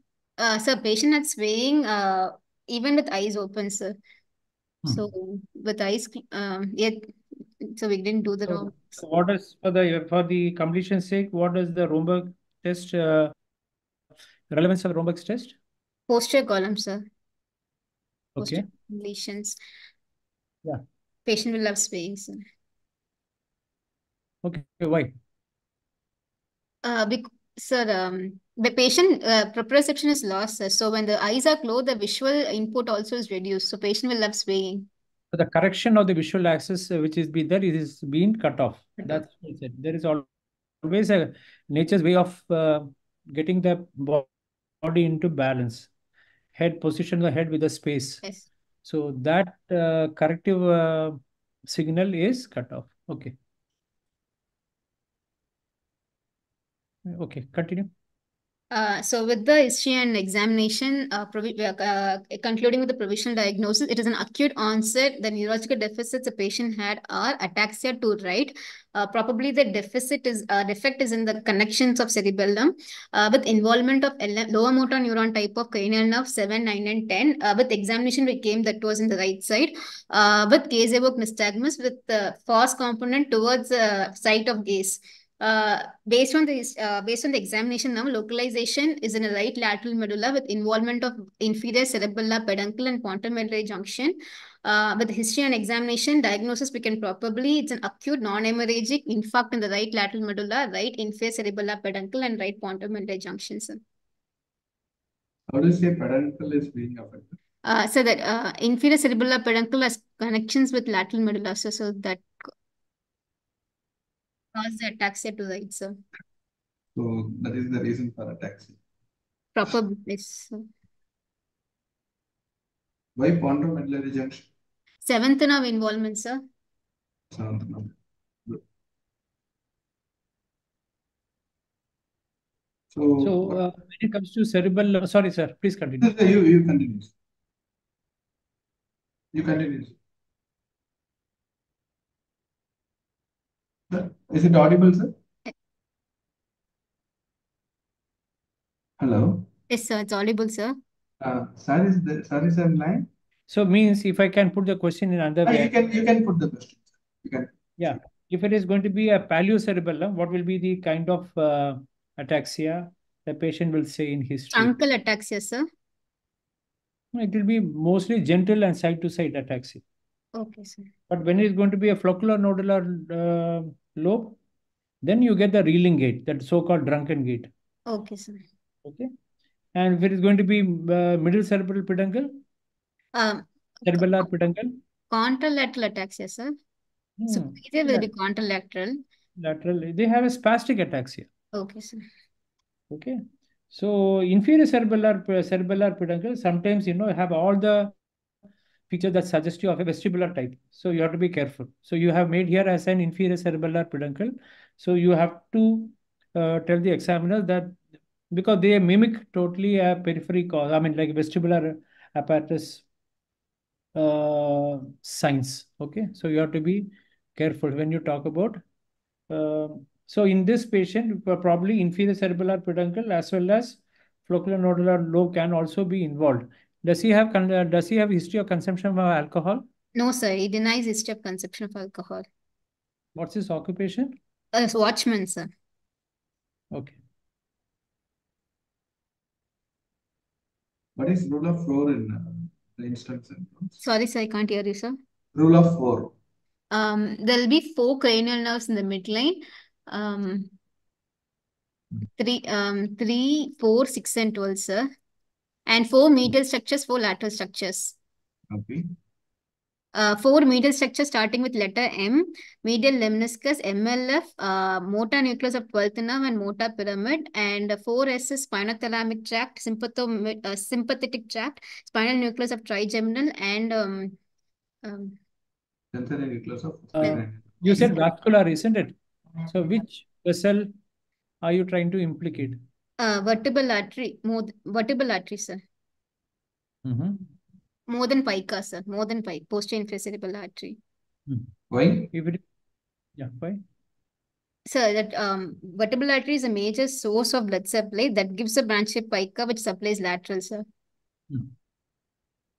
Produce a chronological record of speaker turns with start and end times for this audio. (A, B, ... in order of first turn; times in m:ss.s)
0:00.4-0:04.0 A
0:04.9-0:09.0 A
0:08.5-0:13.3 B
0:14.5-0:15.6 B
0:16.1-0:17.0 A
0:18.4-0:18.6 B
0:18.4-0:19.6 A
0:21.2-0:22.4 A
0:24.4-0:25.1 B
0:26.8-0:34.9 A
0:35.3-0:40.3 B
0:40.8-0:44.3 B
0:44.8-0:45.9 B
0:46.5-0:48.2 B
0:48.8-0:53.3 B
0:57.1-0:57.9 B
0:58.7-1:43.8 A
1:45.5-1:47.4 C
1:47.6-1:52.5 A
1:54.5-1:56.0 A
1:56.9-1:58.8 C
1:59.5-2:00.7 A
2:03.2-2:04.5 C
2:05.0-2:06.4 A
2:07.3-2:07.9 C
2:12.9-2:13.6 C
2:13.2-2:16.1 B
2:16.0-2:17.1 C
2:19.3-2:19.9 C
2:23.9-2:25.1 C
2:29.0-2:29.5 C
2:29.7-2:30.8 A
2:31.2-2:33.1 C
2:33.5-2:35.7 B
2:35.4-2:37.5 C
2:37.8-2:44.7 B
2:44.5-2:45.6 A
2:47.1-2:49.8 B
2:50.3-2:50.9 A
2:51.1-2:54.4 B
2:55.0-2:57.5 B
2:57.9-2:58.4 A
2:58.8-2:59.1 B
2:59.7-3:02.4 B
3:03.1-3:04.2 A
3:03.8-3:04.8 B
3:05.1-3:06.5 A
3:07.2-3:08.1 B
3:07.3-3:09.0 A
3:09.4-3:11.3 B
3:11.5-3:12.0 A
3:12.9-3:17.9 B
3:18.9-3:27.8 B
3:28.3-3:32.8 B
3:33.9-3:38.6 B
3:39.3-3:49.6 B
3:49.9-3:52.2 A
3:53.2-3:54.2 B
3:54.5-3:55.5 A
3:56.7-3:57.0 B
4:01.0-4:03.8 C
4:03.8-4:05.0 A
4:05.3-4:06.1 C
4:06.7-4:10.5 A
4:12.2-4:14.9 A
4:15.7-4:17.9 A
4:18.5-4:19.0 C
4:19.9-4:34.2 A
4:34.8-4:35.2 A
4:35.9-4:38.0 C
4:37.0-4:39.0 B
4:39.5-4:40.7 B
4:41.4-4:42.6 B
4:43.0-4:45.6 A
4:46.8-4:47.3 B
4:47.9-4:50.8 A
4:51.7-4:52.1 C
4:52.1-4:52.4 B
4:53.2-4:53.6 B
4:54.6-5:00.6 A